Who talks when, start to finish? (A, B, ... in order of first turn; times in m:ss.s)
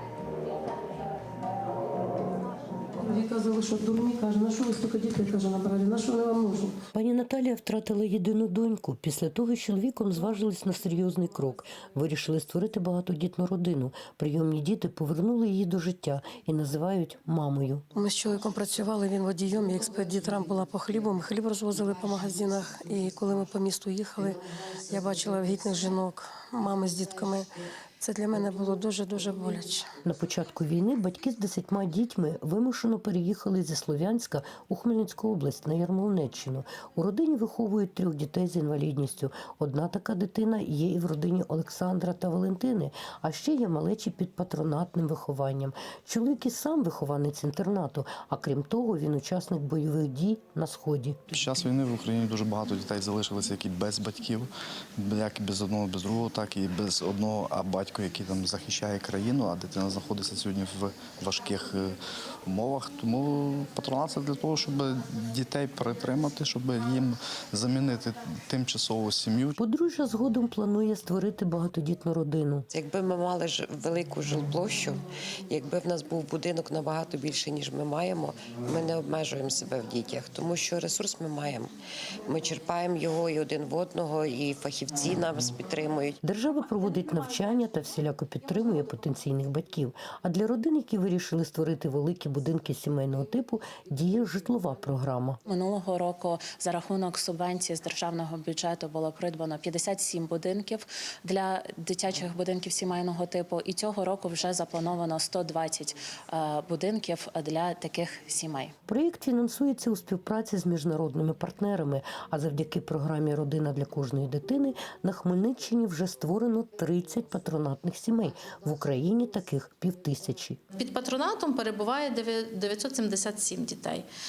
0:03.0-0:06.8 A
0:06.9-0:17.8 B
0:17.9-0:29.9 A
0:30.0-0:51.2 B
0:51.3-1:02.0 C
1:02.5-1:09.6 C
1:09.6-1:12.7 B
1:12.7-1:21.7 D
1:22.2-1:26.2 D
1:26.2-1:35.4 B
1:35.5-1:48.7 E
1:48.9-2:00.6 B
2:00.8-2:04.1 F